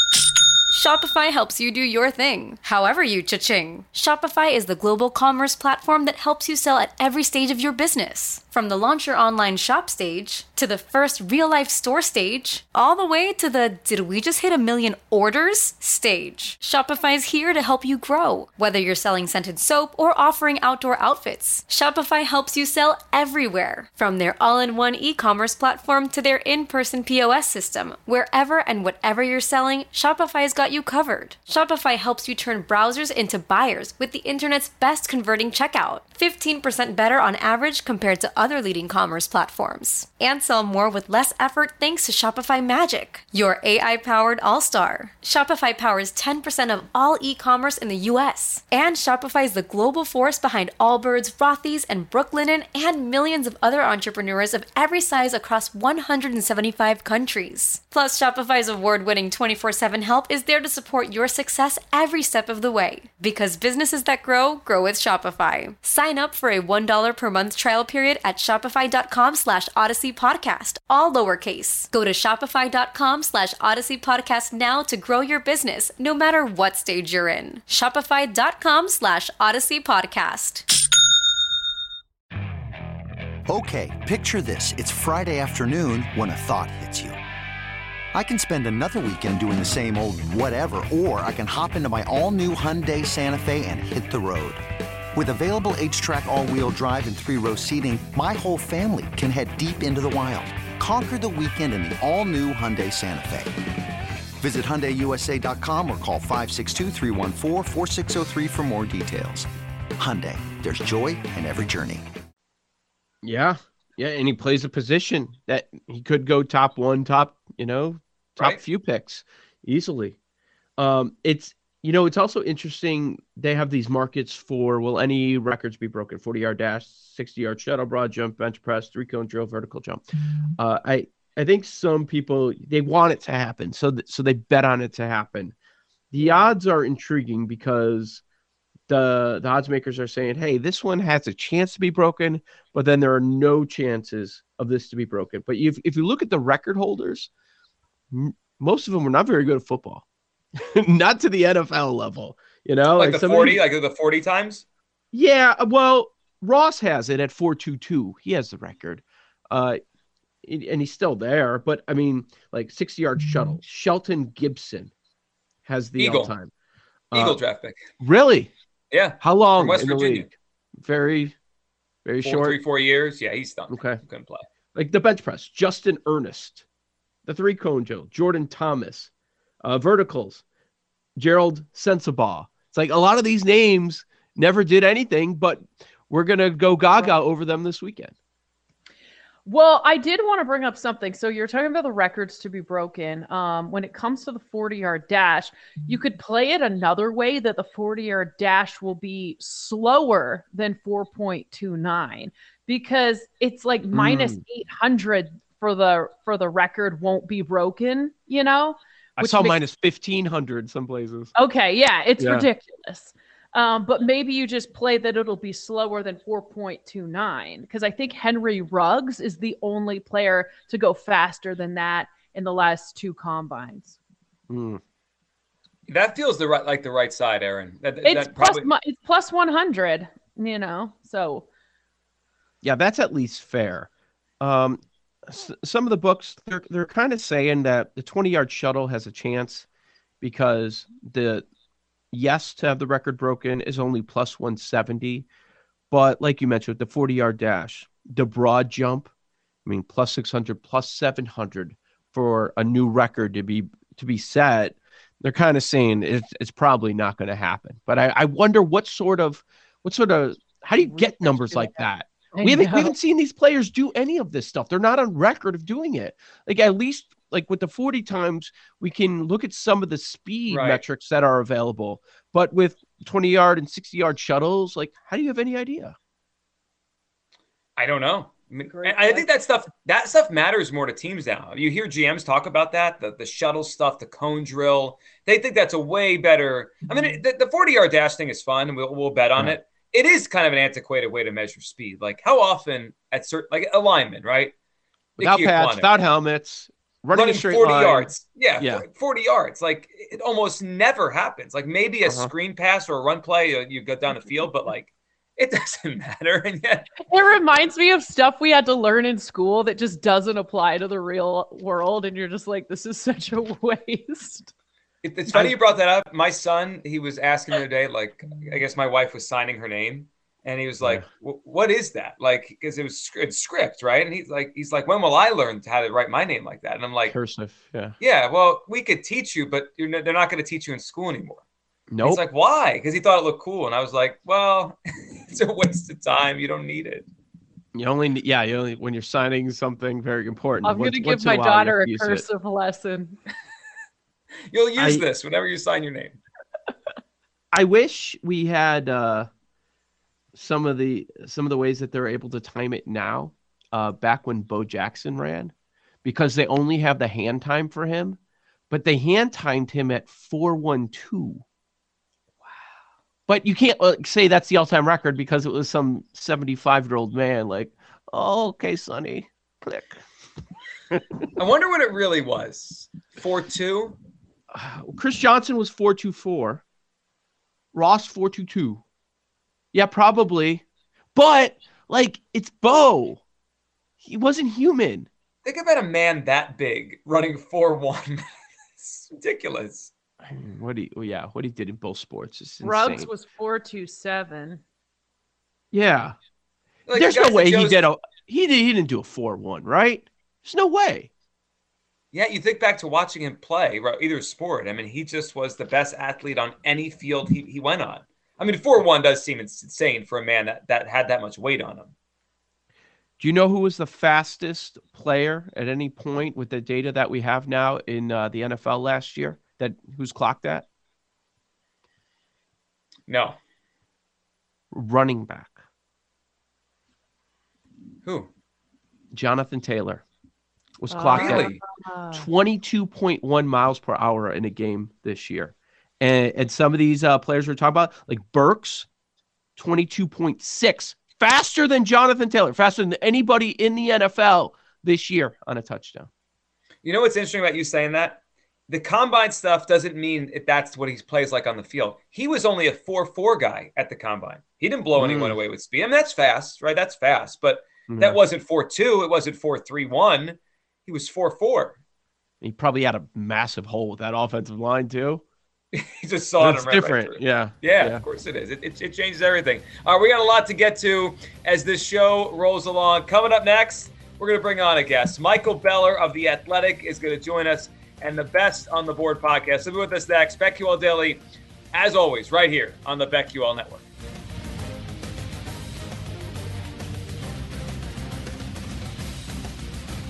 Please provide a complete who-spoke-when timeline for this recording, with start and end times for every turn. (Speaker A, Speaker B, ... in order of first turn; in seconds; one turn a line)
Speaker A: 0.7-80.6
Speaker B: 83.5-87.2
Speaker B: 88.1-94.6
Speaker B: 95.1-103.5
Speaker B: 104.4-112.0
Speaker C: 113.2-120.2
Speaker C: 120.8-130.0
Speaker C: 130.6-135.5
Speaker C: 136.1-138.2
Speaker D: 136.2-136.5
Speaker C: 138.9-147.3
Speaker C: 148.1-150.0
Speaker C: 150.6-153.6
Speaker E: 152.9-154.6
Speaker C: 155.1-159.8
Speaker C: 160.4-164.9
Speaker C: 165.6-166.5
Speaker E: 166.0-166.3
Speaker C: 167.1-167.4
Speaker E: 167.1-167.8
Speaker C: 168.0-168.5
Speaker E: 168.9-170.3
Speaker C: 169.2-171.3
Speaker C: 172.0-172.6
Speaker E: 172.2-174.4
Speaker C: 173.7-174.0
Speaker C: 174.7-176.6
Speaker C: 177.2-179.1
Speaker C: 179.6-180.4
Speaker C: 181.2-188.1
Speaker D: 189.4-209.6
Speaker C: 203.9-204.4
Speaker C: 209.2-211.3
Speaker D: 211.3-223.9
Speaker C: 212.2-212.5
Speaker C: 224.5-224.8
Speaker E: 225.9-228.7
Speaker D: 228.0-231.4
Speaker C: 232.6-233.9
Speaker C: 234.4-239.7
Speaker C: 240.2-241.4
Speaker C: 242.1-245.3
Speaker C: 245.9-249.1
Speaker C: 249.6-275.9
Speaker D: 260.8-262.9
Speaker E: 270.5-270.8
Speaker E: 277.8-294.5
Speaker D: 278.7-279.3
Speaker E: 295.2-295.9
Speaker C: 295.2-298.8
Speaker E: 297.1-306.9
Speaker C: 302.1-302.3
Speaker D: 307.0-314.5
Speaker E: 315.0-327.1
Speaker C: 327.1-327.9
Speaker E: 328.0-331.4
Speaker C: 331.9-332.2
Speaker E: 332.0-337.1
Speaker C: 337.7-342.2
Speaker D: 340.6-343.2
Speaker E: 344.5-346.2
Speaker C: 344.8-345.0
Speaker C: 347.5-349.3
Speaker C: 350.3-355.5
Speaker C: 356.0-358.2
Speaker C: 358.7-361.4
Speaker C: 363.3-370.0
Speaker E: 371.3-374.0
Speaker C: 374.5-376.6
Speaker C: 377.7-378.8
Speaker C: 379.7-380.6
Speaker C: 381.1-383.2
Speaker C: 384.0-385.1
Speaker E: 385.4-388.2
Speaker E: 388.8-389.9
Speaker C: 390.2-393.1
Speaker D: 392.6-394.6
Speaker C: 395.7-396.1
Speaker E: 396.9-397.8
Speaker C: 396.9-401.1
Speaker E: 402.1-411.9
Speaker C: 413.2-420.7
Speaker E: 423.1-423.4
Speaker C: 424.7-425.6
Speaker E: 428.0-428.3
Speaker C: 429.1-430.0
Speaker C: 430.8-431.4
Speaker D: 430.9-432.3
Speaker E: 431.1-431.6
Speaker C: 432.1-438.9
Speaker C: 439.6-446.1
Speaker E: 446.8-461.8
Speaker C: 455.0-455.4
Speaker C: 457.9-458.2
Speaker C: 462.4-465.2
Speaker E: 465.7-483.8
Speaker C: 466.4-468.0